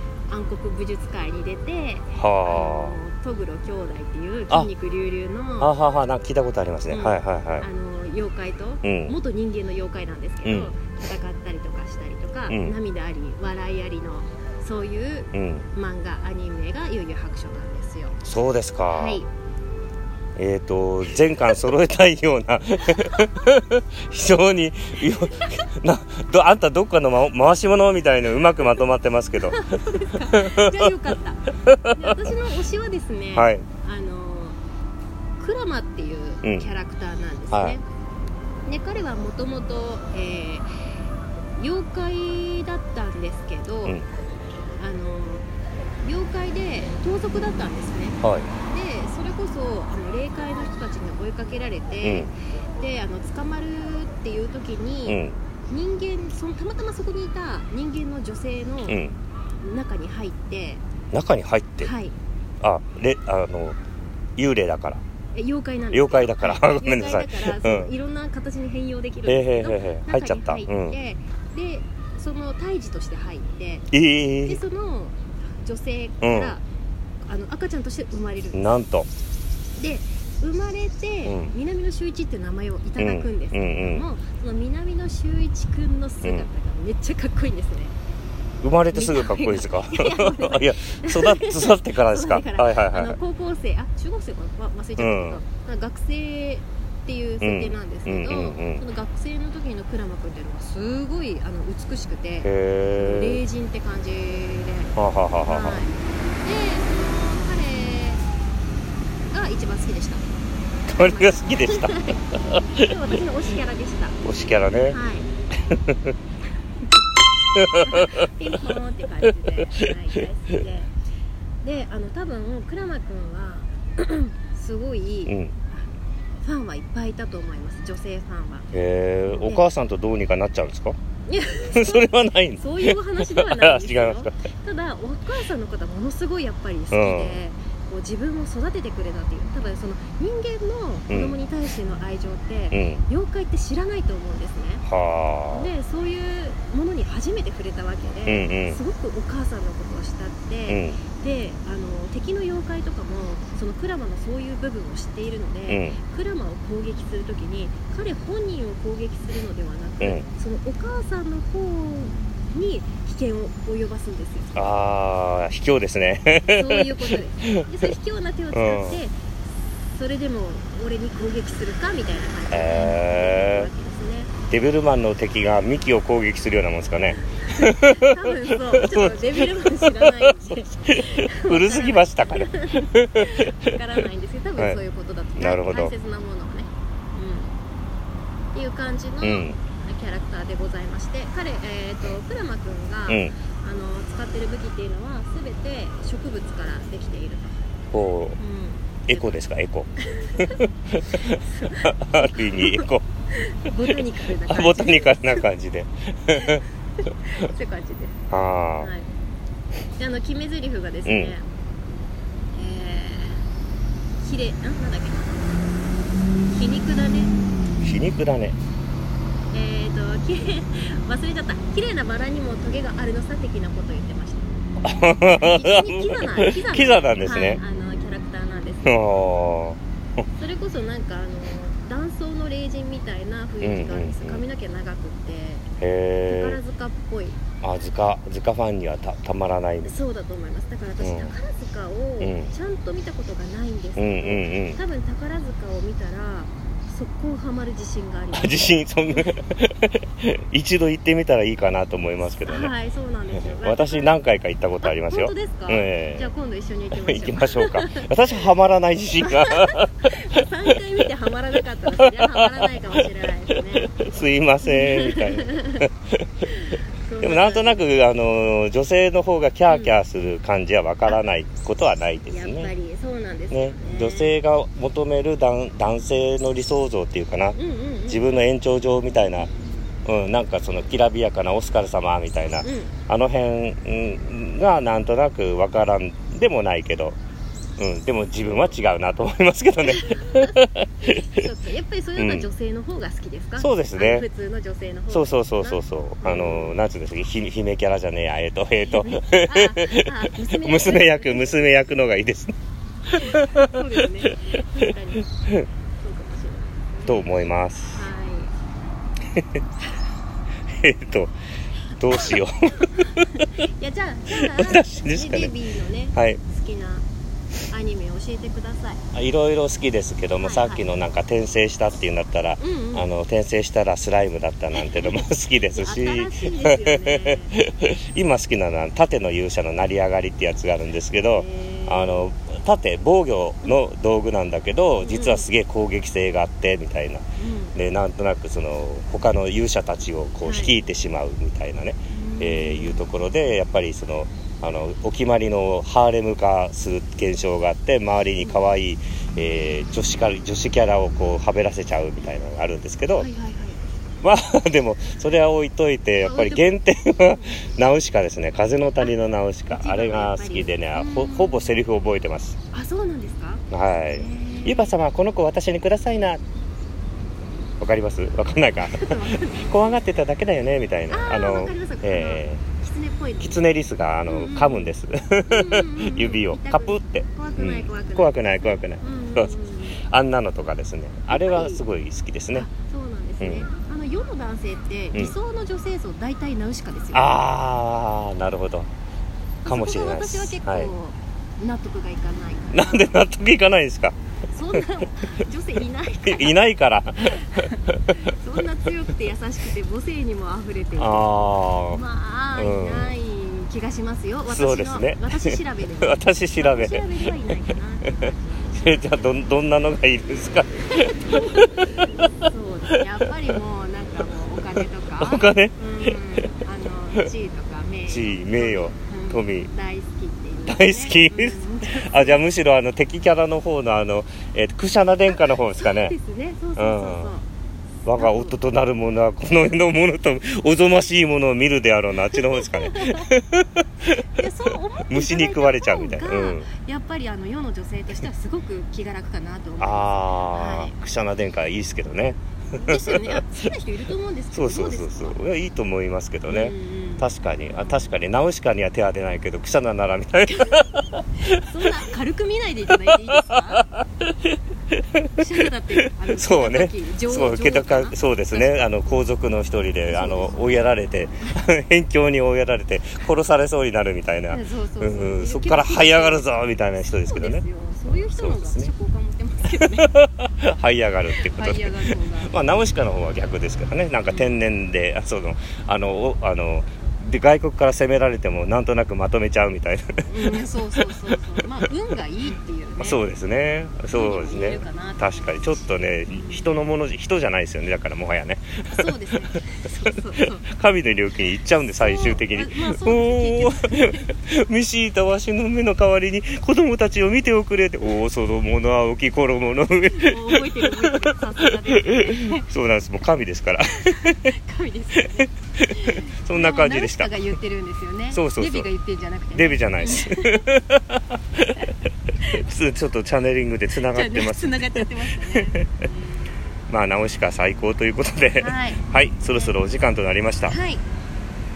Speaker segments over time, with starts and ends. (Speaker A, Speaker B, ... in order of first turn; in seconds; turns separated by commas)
Speaker A: 0.3-5.7, Speaker B: 2.1-3.0, Speaker B: 5.6-7.7, Speaker A: 6.9-18.2, Speaker B: 8.8-9.2, Speaker B: 10.4-10.7, Speaker B: 12.5-12.8, Speaker B: 15.3-15.7, Speaker B: 18.2-19.2, Speaker A: 18.9-19.3, Speaker B: 20.4-29.8, Speaker A: 29.4-34.6, Speaker B: 30.3-30.9, Speaker B: 31.6-32.1, Speaker B: 33.3-33.6, Speaker A: 35.4-37.8, Speaker B: 36.4-36.7, Speaker B: 37.5-37.8, Speaker A: 38.6-40.7, Speaker A: 41.6-44.0, Speaker A: 44.8-45.5, Speaker A: 46.0-59.0, Speaker B: 48.2-48.5, Speaker B: 52.0-52.3, Speaker B: 55.0-55.4, Speaker B: 58.9-59.1, Speaker A: 59.6-60.8, Speaker B: 61.1-61.9, Speaker A: 61.8-62.1, Speaker B: 62.6-63.8, Speaker B: 64.4-65.0, Speaker A: 65.3-73.9, Speaker B: 65.9-67.9, Speaker B: 69.2-71.0, Speaker B: 73.9-74.6, Speaker A: 74.4-76.6, Speaker B: 76.2-76.5, Speaker A: 77.2-78.7, Speaker B: 78.5-79.1, Speaker A: 79.8-87.9, Speaker B: 81.2-81.5, Speaker B: 83.0-84.0, Speaker B: 86.2-86.5, Speaker B: 88.6-93.2, Speaker A: 88.9-104.9, Speaker B: 95.0-95.4, Speaker B: 97.4-98.8, Speaker B: 102.4-103.4, Speaker B: 105.0-105.8, Speaker A: 105.5-108.2, Speaker A: 109.3-110.2, Speaker B: 110.8-113.2, Speaker A: 111.0-114.2, Speaker B: 114.2-115.0, Speaker A: 114.9-115.3, Speaker B: 115.7-116.2, Speaker B: 117.5-118.3, Speaker A: 117.8-120.9, Speaker A: 121.6-125.9, Speaker B: 125.3-125.5, Speaker A: 126.4-128.7, Speaker B: 128.7-130.9, Speaker A: 129.3-129.7, Speaker A: 131.2-144.8, Speaker B: 131.7-134.3, Speaker B: 136.9-137.4, Speaker B: 141.1-141.3, Speaker B: 142.7-143.0, Speaker B: 144.8-145.7, Speaker A: 145.5-164.5, Speaker B: 148.2-148.8, Speaker B: 150.7-151.0, Speaker B: 155.7-156.0, Speaker B: 164.5-167.6, Speaker A: 166.5-169.2, Speaker B: 168.5-169.0, Speaker A: 169.8-174.3, Speaker B: 172.5-173.7, Speaker B: 174.5-180.3, Speaker A: 177.5-187.5, Speaker B: 180.9-183.8, Speaker B: 185.4-185.9, Speaker A: 188.5-197.6, Speaker B: 189.2-189.6, Speaker B: 193.1-193.3, Speaker B: 197.9-198.4, Speaker A: 198.4-199.4, Speaker B: 199.1-203.0, Speaker A: 200.0-205.4, Speaker B: 203.9-206.6, Speaker A: 206.3-208.2, Speaker B: 208.3-208.9, Speaker A: 208.8-209.1, Speaker A: 209.9-211.4, Speaker B: 211.1-211.3, Speaker A: 212.5-213.4, Speaker A: 214.2-215.6, Speaker A: 216.5-217.4, Speaker B: 217.8-218.6, Speaker A: 219.5-224.6, Speaker B: 224.8-227.6, Speaker A: 225.3-229.0, Speaker B: 228.8-229.8, Speaker A: 230.3-235.7, Speaker B: 233.6-234.4, Speaker B: 235.8-236.6, Speaker A: 236.2-237.4, Speaker B: 237.6-239.9, Speaker A: 239.8-249.3, Speaker B: 241.0-241.3, Speaker B: 242.2-242.5, Speaker B: 243.9-244.8, Speaker B: 248.3-252.7, Speaker A: 252.4-254.2, Speaker B: 253.4-256.3, Speaker A: 254.8-258.1, Speaker B: 256.9-260.2, Speaker A: 259.2-265.9, Speaker B: 261.9-263.0, Speaker B: 263.8-266.3, Speaker A: 266.4-267.9, Speaker B: 267.2-272.7, Speaker A: 269.7-269.9, Speaker A: 272.3-274.4, Speaker B: 273.5-279.5, Speaker A: 277.5-278.3, Speaker B: 280.0-287.2, Speaker A: 282.6-282.9, Speaker B: 287.8-291.4, Speaker A: 289.9-296.8, Speaker B: 292.1-292.5, Speaker B: 293.6-294.3, Speaker B: 295.1-302.5, Speaker A: 298.9-301.6, Speaker B: 303.1-304.3, Speaker A: 303.1-305.3, Speaker A: 306.0-307.3, Speaker B: 307.1-308.0, Speaker A: 307.9-308.5, Speaker B: 309.3-309.6, Speaker B: 310.7-311.3, Speaker B: 312.0-313.3, Speaker A: 312.1-317.0, Speaker B: 314.3-315.5, Speaker B: 316.1-316.4, Speaker A: 317.7-319.0, Speaker B: 319.1-353.3, Speaker A: 320.4-320.9, Speaker A: 322.6-323.1, Speaker A: 324.8-325.1, Speaker A: 325.7-327.5, Speaker A: 331.3-332.3, Speaker A: 335.0-335.5, Speaker A: 337.4-337.8, Speaker A: 340.4-340.7, Speaker A: 342.1-343.1, Speaker A: 353.2-353.8, Speaker B: 354.2-362.6, Speaker A: 356.2-357.6, Speaker A: 359.7-361.7, Speaker A: 362.7-365.0, Speaker B: 363.7-366.4, Speaker B: 367.8-372.6, Speaker A: 368.8-370.0, Speaker A: 371.1-373.6, Speaker B: 373.4-379.5, Speaker A: 374.2-374.9, Speaker A: 375.5-380.0, Speaker B: 380.0-382.7, Speaker A: 381.3-381.8, Speaker A: 382.5-387.4, Speaker B: 383.4-383.7, Speaker B: 387.1-388.9, Speaker A: 389.6-393.1, Speaker B: 389.6-390.9, Speaker B: 392.7-394.1, Speaker A: 394.5-396.6, Speaker B: 396.2-398.2, Speaker A: 397.2-401.4, Speaker B: 401.0-402.0, Speaker A: 401.9-409.1, Speaker B: 402.6-403.1, Speaker B: 404.5-407.2, Speaker B: 408.7-412.1, Speaker A: 411.0-422.4, Speaker B: 415.2-416.6, Speaker B: 418.1-419.7, Speaker B: 420.7-426.1, Speaker A: 425.4-427.4, Speaker B: 426.8-427.3, Speaker B: 428.0-434.4, Speaker A: 428.1-428.6, Speaker A: 432.3-433.3, Speaker A: 434.3-440.9, Speaker B: 435.1-436.7, Speaker B: 439.8-443.6, Speaker A: 442.7-445.4, Speaker B: 444.5-451.6, Speaker A: 446.5-448.1, Speaker A: 451.4-453.9, Speaker B: 453.5-455.4, Speaker A: 455.4-459.2, Speaker B: 456.2-468.9, Speaker A: 460.1-460.6, Speaker A: 464.5-466.6, Speaker A: 467.2-470.1, Speaker B: 469.7-481.4, Speaker A: 471.4-472.6, Speaker A: 474.2-474.6, Speaker A: 480.3-483.2, Speaker B: 483.0-489.6, Speaker A: 484.1-486.8, Speaker A: 488.9-490.7, Speaker B: 490.6-504.5, Speaker A: 491.9-494.3, Speaker A: 500.1-502.6, Speaker A: 504.1-510.6, Speaker B: 505.1-507.4, Speaker B: 508.3-508.9, Speaker B: 509.5-511.9, Speaker B: 512.5-516.0, Speaker A: 514.1-516.5, Speaker B: 516.9-520.8, Speaker A: 518.6-519.0, Speaker A: 519.5-519.8, Speaker A: 520.7-521.0